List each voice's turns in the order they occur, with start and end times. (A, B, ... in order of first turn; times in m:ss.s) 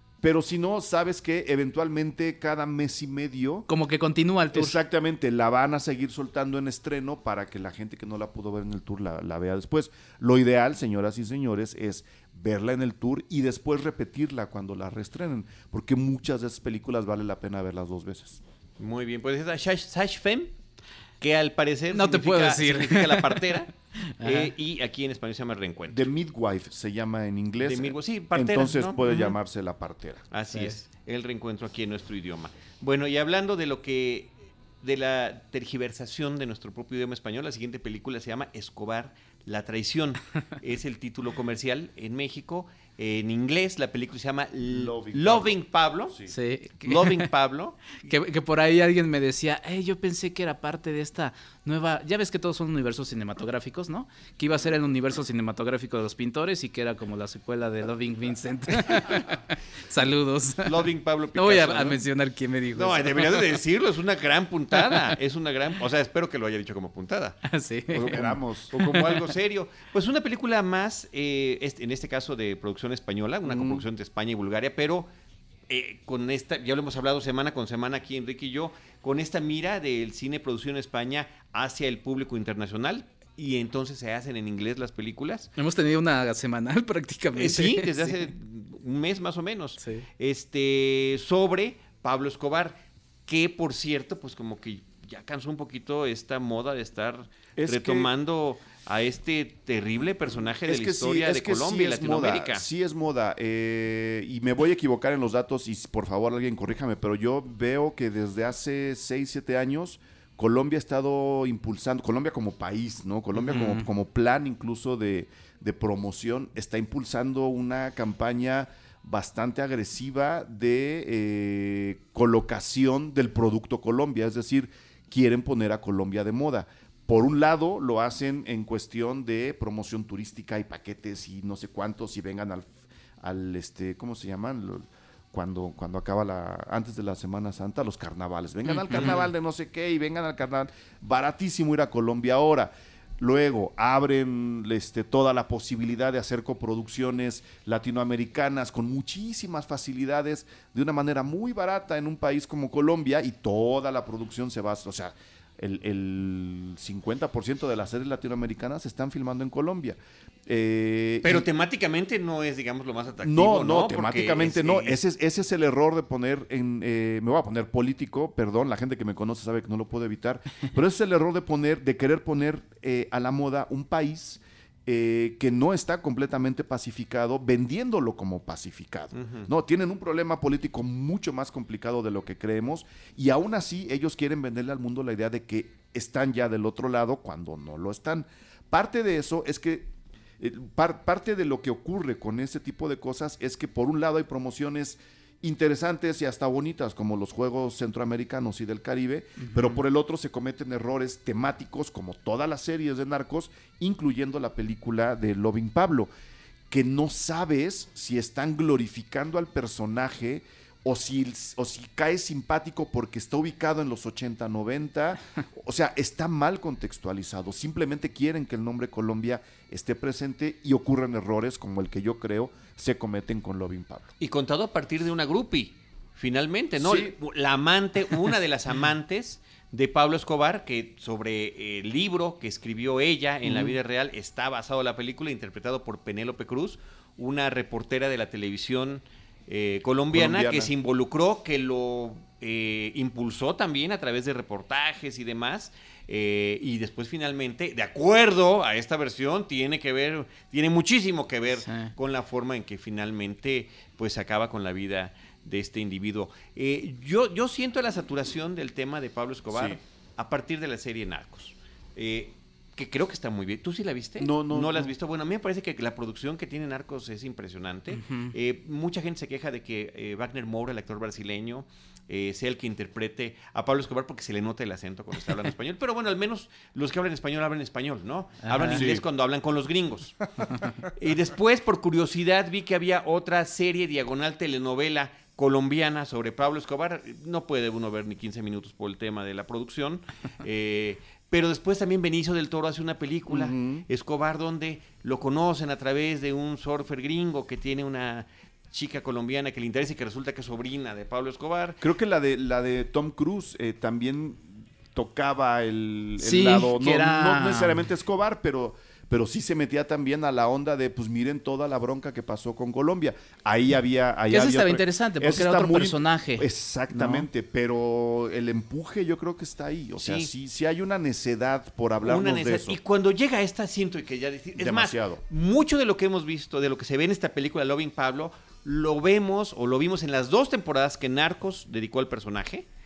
0:00.2-0:03.6 A
0:03.7-0:04.8 B
0:04.5-0:18.4 A
0:18.8-0:20.5 C
0:21.2-0:26.0 C
0:21.9-0:24.5 B
0:25.9-0:30.3 A
0:27.6-0:29.2 C
0:29.0-0:29.3 B
0:30.3-0:46.2 C
0:44.7-0:45.5 A
0:46.3-0:47.3 B
0:46.8-0:48.0 C
0:48.0-1:00.8 B
1:00.6-1:02.0 C
1:01.4-1:03.6 B
1:02.7-1:07.4 C
1:04.8-1:05.1 B
1:07.4-1:09.3 B
1:07.9-1:08.7 A
1:08.7-1:15.1 C
1:13.4-1:13.8 A
1:15.7-1:25.5 C
1:25.6-1:28.3 B
1:27.4-1:42.6 C
1:29.8-1:30.0 B
1:37.6-1:38.1 A
1:40.6-2:41.5 A
1:53.4-1:53.8 B
2:18.6-2:19.3 B
2:41.2-2:45.0 C
2:43.2-3:26.1 A
2:59.1-2:59.5 C
3:19.4-3:19.7 B
3:26.7-3:44.1 A
3:44.2-4:40.2 C
3:46.8-3:47.1 A
3:53.4-3:53.8 A
4:00.1-4:00.7 A
4:11.6-4:11.9 B
4:19.5-4:19.8 A
4:24.2-4:24.9 A
4:38.4-4:38.9 B
4:38.7-4:39.0 A
4:40.9-5:01.8 C
4:53.3-4:53.8 A
5:01.8-5:22.8 A
5:06.2-5:07.8 B
5:14.3-5:17.2 B
5:20.0-5:20.3 C
5:22.0-5:32.6 C
5:24.6-5:25.2 A